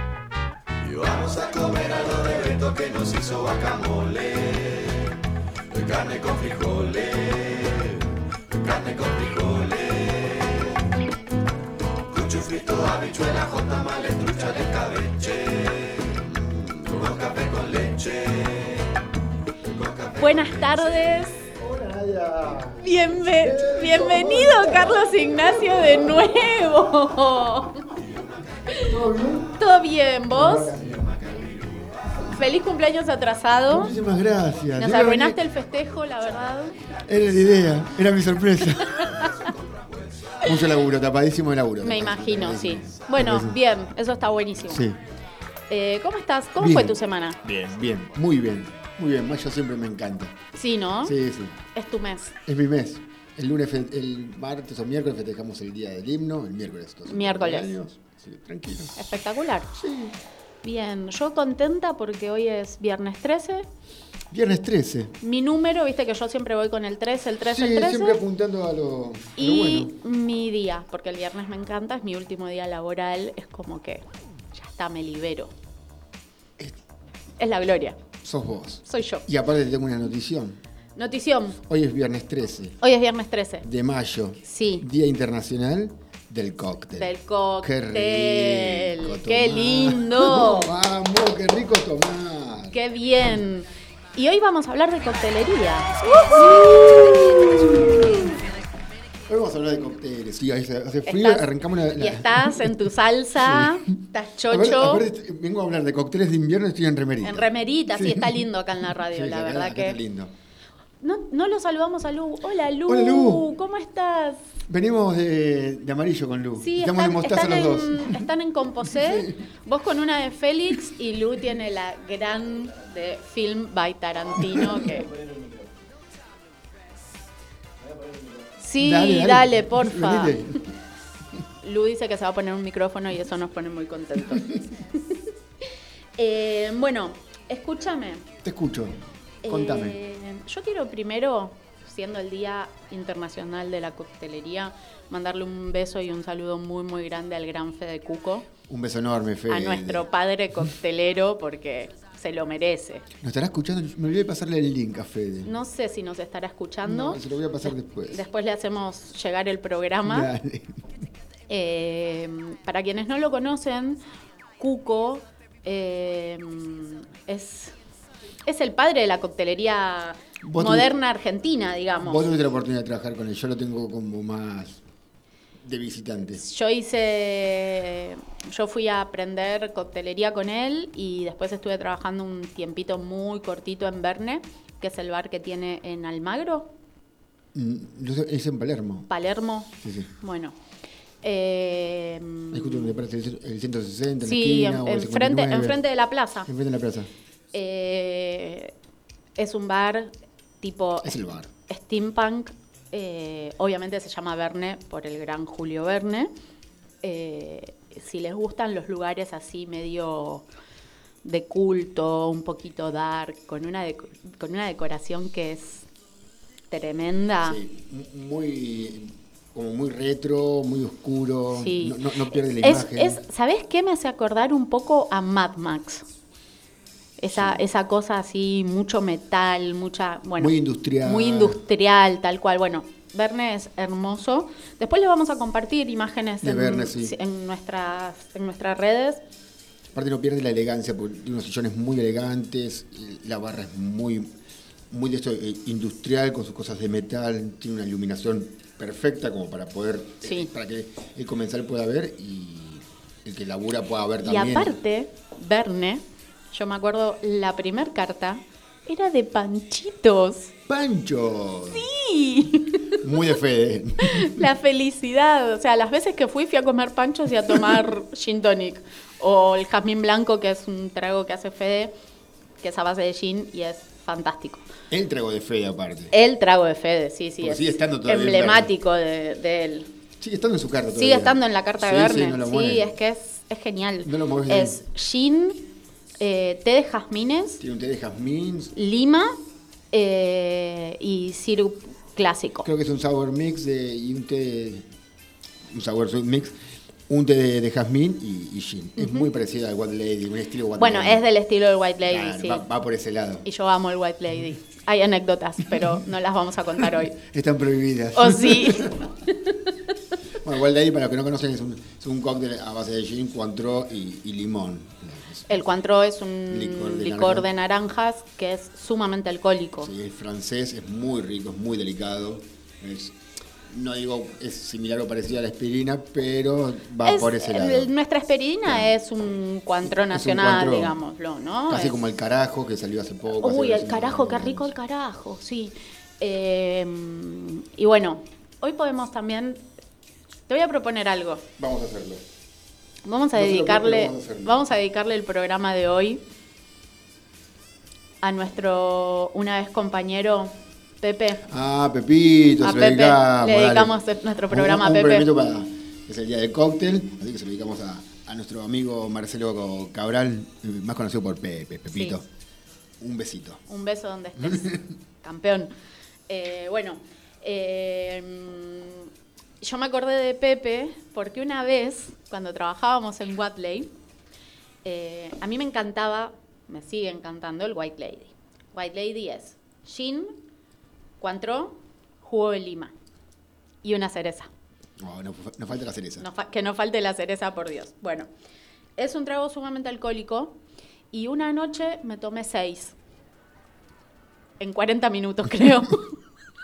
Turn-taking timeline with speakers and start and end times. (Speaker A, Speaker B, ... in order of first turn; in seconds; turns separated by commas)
Speaker A: 0.9-4.4, Speaker B: 3.3-3.9, Speaker B: 5.9-7.5, Speaker B: 8.6-10.4, Speaker B: 12.1-18.8, Speaker B: 19.7-20.8, Speaker C: 20.2-21.5, Speaker B: 21.5-26.3, Speaker C: 22.8-27.9, Speaker C: 28.7-29.0, Speaker B: 28.7-29.6, Speaker C: 29.5-30.8, Speaker B: 30.3-31.9, Speaker C: 32.3-34.0, Speaker B: 33.7-35.4, Speaker C: 34.8-36.9, Speaker B: 37.0-39.5, Speaker C: 38.9-39.5, Speaker B: 40.4-43.6, Speaker C: 41.8-44.9, Speaker B: 44.7-45.0, Speaker C: 45.7-47.4, Speaker B: 46.6-50.4, Speaker C: 50.5-51.1, Speaker B: 51.0-51.6, Speaker C: 51.8-52.3, Speaker B: 52.5-59.1, Speaker C: 57.1-57.8, Speaker C: 59.0-59.7, Speaker B: 59.7-60.2, Speaker C: 60.6-63.7, Speaker B: 64.3-65.2, Speaker C: 65.2-68.2, Speaker B: 67.4-70.0, Speaker C: 69.4-75.5, Speaker C: 77.4-78.0, Speaker B: 78.2-80.6, Speaker C: 78.9-79.2, Speaker C: 81.0-81.6, Speaker B: 81.6-82.8, Speaker C: 82.8-83.7, Speaker B: 83.6-92.8, Speaker C: 84.4-84.9, Speaker C: 87.0-90.7, Speaker C: 92.7-98.3, Speaker B: 96.4-98.3, Speaker B: 99.3-102.8, Speaker C: 101.1-105.0, Speaker B: 103.4-110.3, Speaker C: 107.2-110.0, Speaker C: 111.0-114.4, Speaker B: 112.9-113.5, Speaker B: 114.7-119.4, Speaker C: 116.6-125.1, Speaker B: 124.3-125.5, Speaker C: 128.6-130.4, Speaker B: 128.8-130.7, Speaker C: 131.6-135.2, Speaker C: 136.2-138.3, Speaker B: 138.4-140.0, Speaker C: 139.4-148.5, Speaker B: 148.7-150.1, Speaker C: 149.5-153.1, Speaker B: 153.2-155.6, Speaker C: 155.4-160.3, Speaker B: 156.8-158.3, Speaker B: 160.1-160.9, Speaker C: 161.5-164.0, Speaker C: 164.6-167.8, Speaker C: 168.4-172.3, Speaker B: 170.4-170.9, Speaker B: 172.0-174.8, Speaker B: 175.6-176.4, Speaker C: 176.4-186.7, Speaker B: 187.5-189.1, Speaker C: 189.1-190.6, Speaker B: 189.8-190.1, Speaker C: 191.2-193.0, Speaker B: 192.5-195.8, Speaker C: 194.2-196.5, Speaker B: 196.4-197.1, Speaker C: 197.5-198.7, Speaker C: 199.4-206.3, Speaker B: 201.0-201.5, Speaker C: 207.0-210.4, Speaker C: 211.2-215.9, Speaker C: 216.7-217.6, Speaker B: 217.4-223.2, Speaker C: 221.5-222.1, Speaker C: 222.6-226.1, Speaker C: 227.2-239.2, Speaker B: 227.3-227.7, Speaker B: 230.4-231.6, Speaker B: 236.4-237.2, Speaker B: 239.9-244.3, Speaker B: 244.9-254.8, Speaker C: 250.2-250.5, Speaker C: 254.2-260.5, Speaker B: 260.7-261.9, Speaker C: 261.7-263.0, Speaker B: 262.9-264.5, Speaker C: 264.0-271.9, Speaker C: 272.6-274.7, Speaker B: 274.9-276.1, Speaker C: 276.1-279.9, Speaker B: 277.4-278.7, Speaker B: 280.2-282.9, Speaker C: 280.9-285.7, Speaker B: 284.0-284.8, Speaker C: 286.2-287.6, Speaker B: 287.6-288.8, Speaker C: 288.8-289.4, Speaker C: 289.9-292.7, Speaker B: 292.6-294.9, Speaker B: 295.7-301.2, Speaker C: 299.0-299.3, Speaker C: 300.8-302.7, Speaker B: 302.0-303.5, Speaker C: 303.4-307.1, Speaker B: 305.7-306.0, Speaker B: 306.7-309.1, Speaker C: 308.2-309.1, Speaker B: 310.4-315.7, Speaker C: 315.5-319.9, Speaker B: 316.5-317.5, Speaker B: 319.8-327.9, Speaker C: 327.0-332.0, Speaker B: 328.7-328.9, Speaker B: 329.9-331.0, Speaker B: 331.7-334.8, Speaker C: 333.4-339.6, Speaker C: 340.5-341.5, Speaker B: 341.6-342.2, Speaker C: 343.1-346.2, Speaker B: 343.3-344.6, Speaker C: 348.2-351.4, Speaker B: 351.4-353.9, Speaker C: 352.6-355.3, Speaker B: 354.5-362.3, Speaker C: 361.9-362.2, Speaker B: 363.0-363.6, Speaker C: 363.7-365.7, Speaker B: 364.4-364.9, Speaker C: 366.3-369.1, Speaker C: 369.6-373.9, Speaker C: 374.8-380.4, Speaker C: 381.2-382.9, Speaker C: 383.8-384.5, Speaker B: 385.0-386.3, Speaker C: 386.2-388.3, Speaker C: 389.0-390.6, Speaker C: 391.1-392.9, Speaker C: 394.6-396.2